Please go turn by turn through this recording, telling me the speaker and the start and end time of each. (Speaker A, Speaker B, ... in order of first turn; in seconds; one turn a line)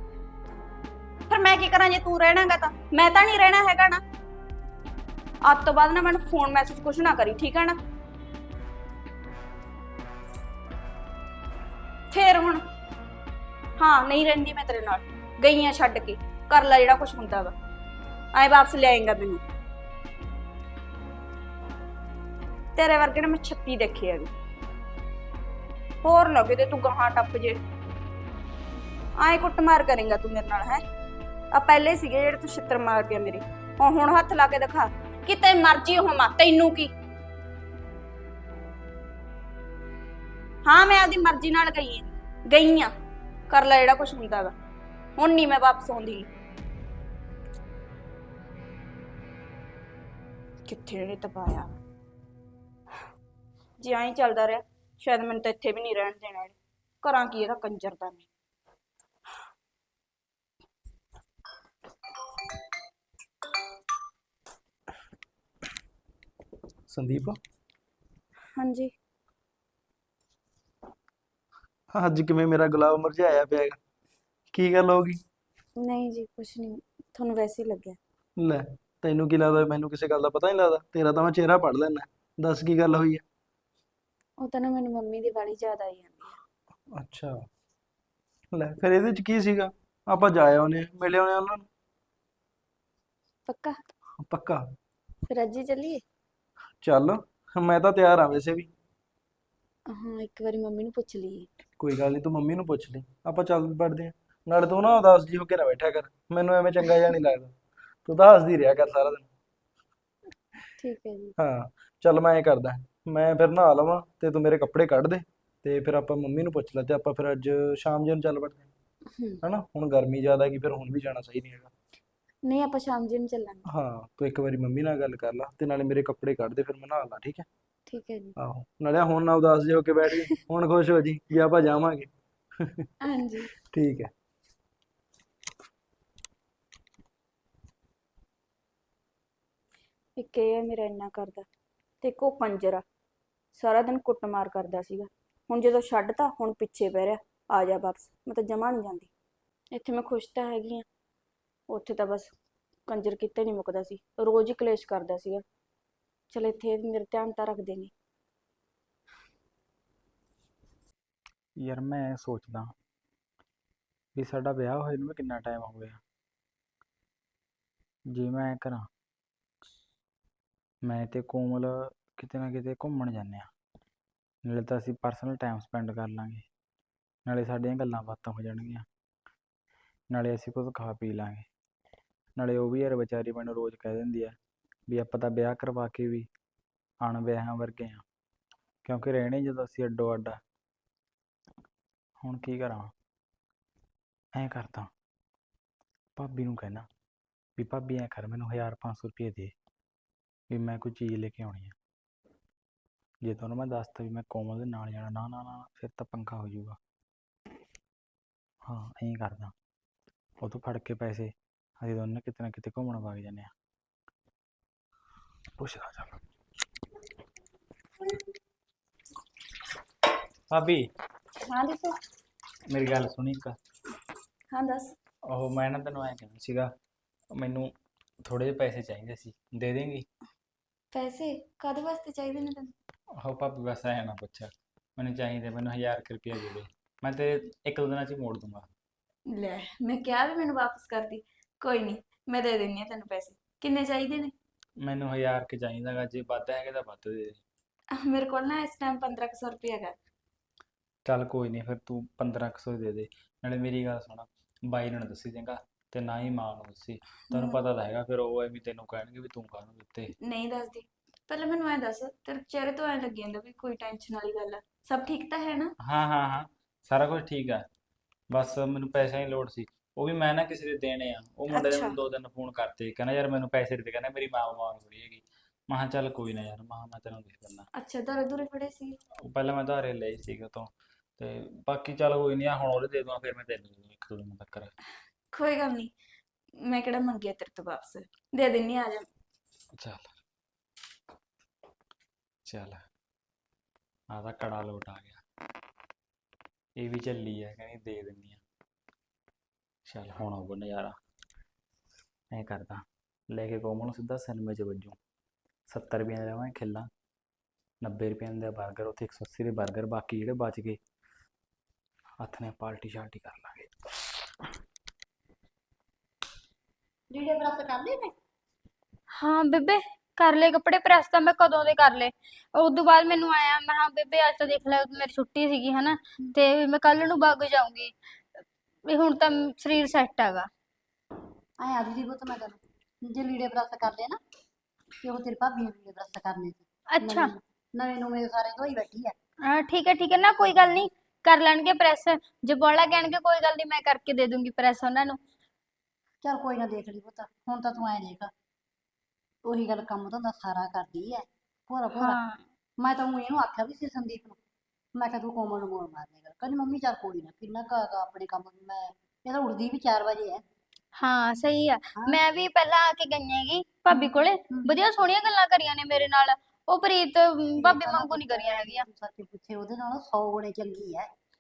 Speaker A: 1.3-4.0
Speaker A: 5.4-7.8
Speaker A: 12.1-12.6
Speaker A: 13.8-17.5
Speaker A: 18.3-19.4
Speaker A: 22.8-24.3
Speaker A: 26.0-27.6
Speaker A: 29.2-30.8
Speaker A: 31.5-36.9
Speaker A: 40.6-42.9
Speaker A: 43.5-44.5
Speaker A: 45.2-46.3
Speaker A: 50.6-51.8
Speaker A: 53.8-58.2
Speaker B: 66.9-67.4
Speaker A: 68.5-68.9
Speaker B: 71.9-73.8
Speaker B: 74.5-75.2
Speaker A: 75.8-78.0
Speaker B: 78.4-83.2
Speaker A: 84.4-86.4
Speaker B: 86.9-87.5
Speaker B: 88.5-91.7
Speaker A: 93.5-93.8
Speaker B: 94.2-94.7
Speaker A: 95.3-96.0
Speaker B: 96.8-98.7
Speaker A: 99.9-101.5
Speaker B: 101.8-109.3
Speaker A: 110.8-111.3
Speaker B: 111.4-118.7
Speaker B: 119.4-121.7
Speaker A: 122.4-123.7
Speaker B: 123.7-127.5
Speaker A: 127.9-128.3
Speaker B: 128.4-132.9
Speaker A: 133.0-133.5
Speaker B: 133.7-134.1
Speaker A: 140.2-141.4
Speaker A: 142.0-142.8
Speaker A: 143.5-149.1
Speaker A: 149.7-150.8
Speaker A: 151.7-152.3
Speaker A: 152.9-155.4
Speaker A: 156.3-157.9
Speaker C: 161.6-162.7
Speaker C: 164.1-166.0
Speaker C: 168.1-168.9
Speaker C: 170.8-173.5
Speaker C: 174.4-176.4
Speaker C: 177.2-178.8
Speaker C: 180.1-181.5
Speaker C: 182.4-184.4
Speaker C: 184.9-186.3
Speaker C: 187.0-188.0
Speaker C: 188.8-190.4
Speaker C: 192.2-192.9
Speaker C: 194.3-194.9
Speaker C: 196.2-196.9
Speaker C: 197.6-199.5
Speaker C: 200.5-201.8
Speaker C: 203.2-206.8
Speaker C: 208.7-209.5
Speaker C: 210.4-213.5
Speaker C: 215.6-216.2
Speaker C: 220.5-220.9
Speaker A: 221.4-222.0
Speaker C: 222.7-223.6
Speaker A: 224.5-225.0
Speaker C: 225.3-226.7
Speaker C: 227.3-227.7
Speaker C: 228.2-230.1
Speaker A: 230.9-232.7
Speaker C: 233.2-238.7
Speaker A: 239.3-244.3
Speaker C: 244.8-247.4
Speaker A: 247.9-249.9
Speaker C: 251.1-260.1
Speaker A: 260.2-265.7
Speaker C: 265.8-267.6
Speaker C: 268.3-277.7
Speaker A: 271.5-271.9
Speaker A: 277.8-279.0
Speaker C: 279.3-284.7
Speaker A: 285.3-285.9
Speaker A: 286.6-289.1
Speaker C: 289.8-290.1
Speaker C: 292.4-292.8
Speaker C: 294.1-295.2
Speaker C: 296.8-298.4
Speaker C: 299.9-301.0
Speaker C: 302.3-305.0
Speaker C: 305.7-306.9
Speaker C: 307.8-310.8
Speaker C: 312.2-313.9
Speaker D: 317.1-318.1
Speaker E: 319.1-327.9
Speaker E: 328.9-330.5
Speaker D: 331.6-334.2
Speaker D: 335.0-339.1
Speaker E: 336.9-337.3
Speaker E: 339.4-345.2
Speaker D: 346.2-348.3
Speaker D: 349.4-352.2
Speaker E: 351.9-352.4
Speaker D: 352.8-354.4
Speaker D: 355.0-360.4
Speaker E: 361.0-368.9
Speaker D: 361.9-362.2
Speaker D: 363.9-364.7
Speaker D: 367.6-371.1